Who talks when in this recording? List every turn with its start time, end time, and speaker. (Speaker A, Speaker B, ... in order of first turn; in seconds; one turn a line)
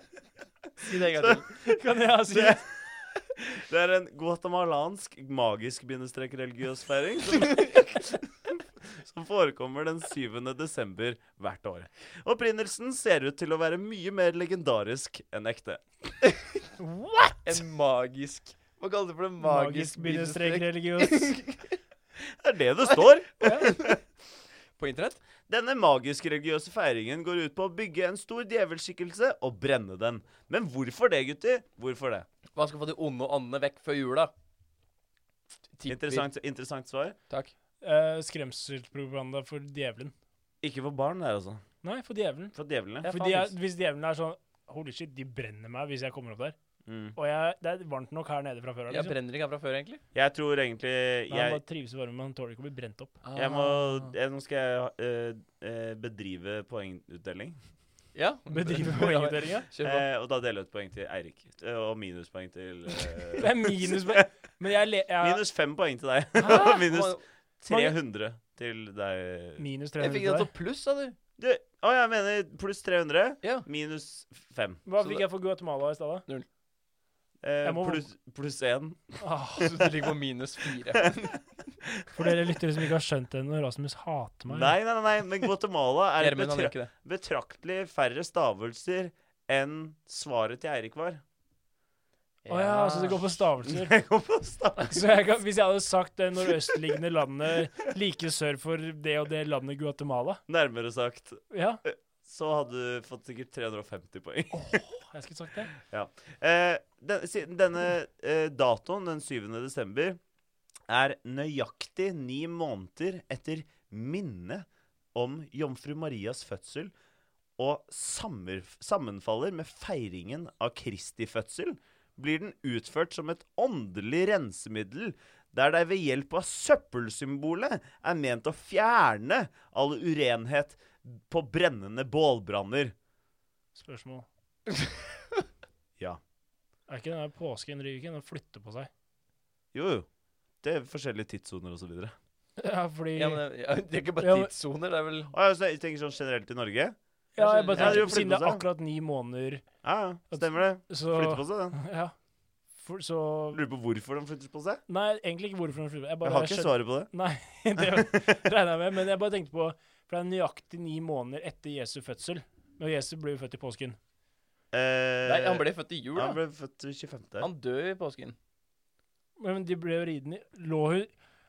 Speaker A: 0.8-1.6
Speaker B: 1.2-1.4
Speaker C: 1.7-2.6
Speaker B: 2.3-16.2
Speaker C: 16.8-17.6
Speaker A: 17.4-21.8
Speaker C: 19.4-21.4
Speaker B: 22.2-24.0
Speaker C: 23.4-23.7
Speaker A: 23.4-23.9
Speaker A: 24.8-25.2
Speaker B: 25.5-32.3
Speaker A: 32.5-34.3
Speaker A: 35.8-36.3
Speaker B: 35.9-37.2
Speaker C: 37.8-40.1
Speaker B: 40.6-41.6
Speaker C: 41.8-42.5
Speaker B: 42.5-43.1
Speaker A: 43.0-43.5
Speaker C: 43.0-46.6
Speaker B: 46.9-47.2
Speaker C: 47.1-49.2
Speaker A: 48.9-50.0
Speaker B: 50.1-51.6
Speaker C: 51.3-53.2
Speaker A: 53.2-54.1
Speaker B: 53.4-57.6
Speaker A: 58.1-60.0
Speaker C: 58.5-59.7
Speaker B: 59.8-64.3
Speaker C: 63.4-65.4
Speaker B: 65.2-69.6
Speaker A: 66.4-67.2
Speaker C: 66.4-66.8
Speaker C: 67.7-68.0
Speaker C: 69.6-70.5
Speaker A: 70.0-71.2
Speaker B: 71.4-74.8
Speaker C: 74.9-76.3
Speaker B: 77.4-79.9
Speaker C: 77.6-78.1
Speaker C: 79.2-79.7
Speaker A: 79.6-81.4
Speaker B: 82.0-82.3
Speaker C: 82.1-84.8
Speaker B: 84.5-91.2
Speaker A: 86.2-86.9
Speaker A: 92.5-93.3
Speaker C: 92.5-94.0
Speaker B: 93.6-95.0
Speaker C: 94.9-100.4
Speaker B: 100.5-104.8
Speaker C: 101.5-101.8
Speaker C: 105.1-105.8
Speaker B: 105.8-110.2
Speaker B: 110.9-116.9
Speaker B: 117.6-132.9
Speaker C: 133.8-134.3
Speaker C: 136.9-138.9
Speaker B: 139.7-140.1
Speaker B: 140.6-142.2
Speaker C: 142.6-143.4
Speaker A: 143.2-145.3
Speaker C: 144.2-144.5
Speaker B: 145.3-146.9
Speaker A: 147.4-148.2
Speaker C: 147.4-149.7
Speaker B: 147.8-148.6
Speaker B: 149.8-151.8
Speaker C: 150.3-152.1
Speaker C: 152.8-153.6
Speaker B: 153.5-154.8
Speaker C: 154.9-164.0
Speaker B: 156.2-157.1
Speaker B: 157.8-158.3
Speaker B: 164.7-167.5
Speaker A: 165.2-166.4
Speaker A: 167.4-168.4
Speaker C: 169.4-171.1